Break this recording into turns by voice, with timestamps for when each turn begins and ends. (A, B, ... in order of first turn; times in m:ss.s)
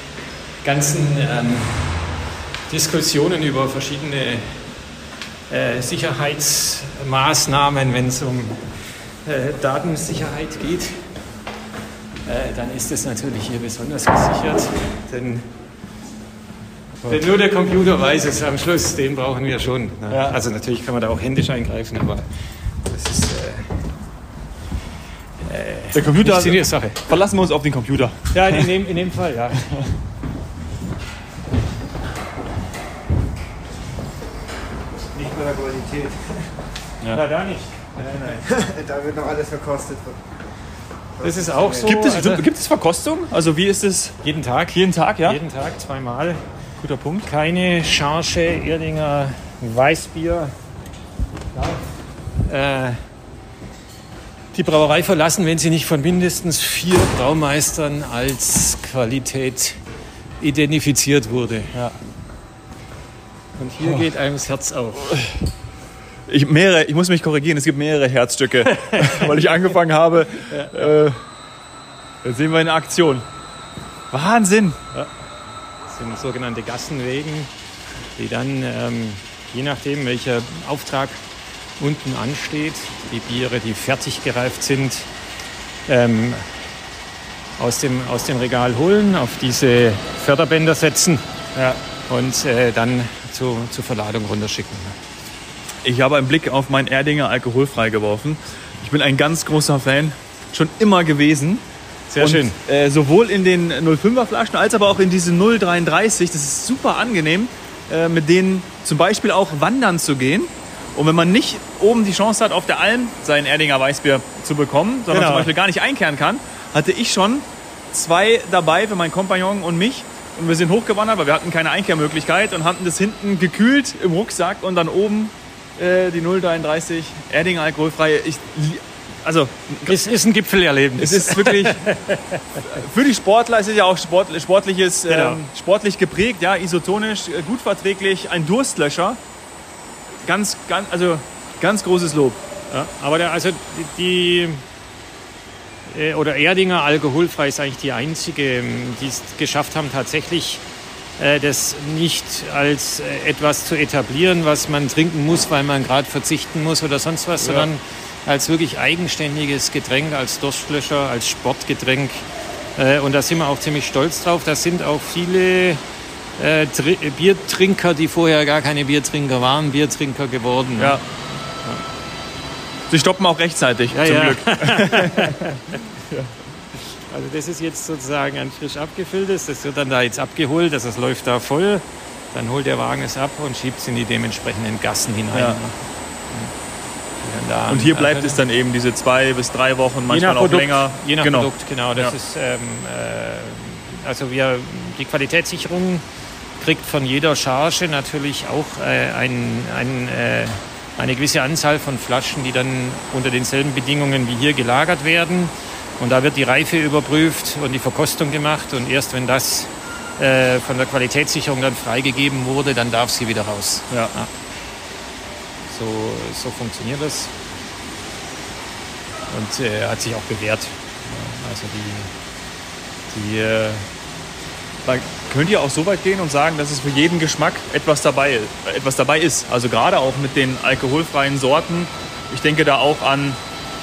0:00.6-0:04.6 A
0:05.5-0:11.1 A
0:12.2-0:15.5 A
0:17.0-0:22.3 A
0:20.1-0:20.4 B
0:22.8-0:23.9 A
0:25.4-0:27.1 A
0:25.9-0:28.7 B
0:28.3-0:29.7 A
0:35.1-0:36.6 C
0:37.1-0:37.8 A
0:38.0-0:40.2 C
0:41.2-0:42.0 C
0:41.2-0:42.4 A
0:41.8-0:44.2 B
0:44.2-0:46.4 A
0:44.7-0:45.4 B
0:46.8-0:47.3 B
0:47.2-0:50.5 A
0:52.4-0:53.0 A
0:54.5-0:59.8 A
1:00.4-1:01.8 A
1:03.6-1:05.2 A
1:03.8-1:04.1 B
1:06.3-1:11.2 B
1:08.7-1:09.4 A
1:10.5-1:10.9 A
1:12.2-1:13.2 B
1:14.1-1:14.8 B
1:15.8-1:17.5 A
1:18.2-1:21.2 A
1:21.8-1:25.1 A
1:25.9-1:26.7 A
1:27.6-1:31.2 A
1:31.5-1:31.8 B
1:32.1-1:35.0 A
1:35.8-1:41.6 B
1:42.1-1:42.6 A
1:42.2-2:10.0 B
1:55.1-1:55.5 A
2:09.8-2:12.6 A
2:11.0-2:11.9 B
2:12.6-2:19.2 B
2:15.1-2:15.4 A
2:20.2-2:22.4 B
2:22.7-2:24.6 A
2:25.8-2:30.6 A
2:31.2-2:45.8 A
2:37.4-2:37.7 B
2:46.4-2:51.0 A
2:50.8-2:51.0 B
2:52.9-2:56.3 B
2:53.9-2:55.8 A
2:56.8-3:06.5 A
3:05.3-3:05.6 B
3:07.2-3:08.4 A
3:07.6-3:12.1 B
3:10.1-3:16.0 A
3:16.6-3:34.3 A
3:35.7-3:37.3 A
3:39.3-3:42.1 A
3:43.1-3:43.9 A
3:44.8-3:53.4 B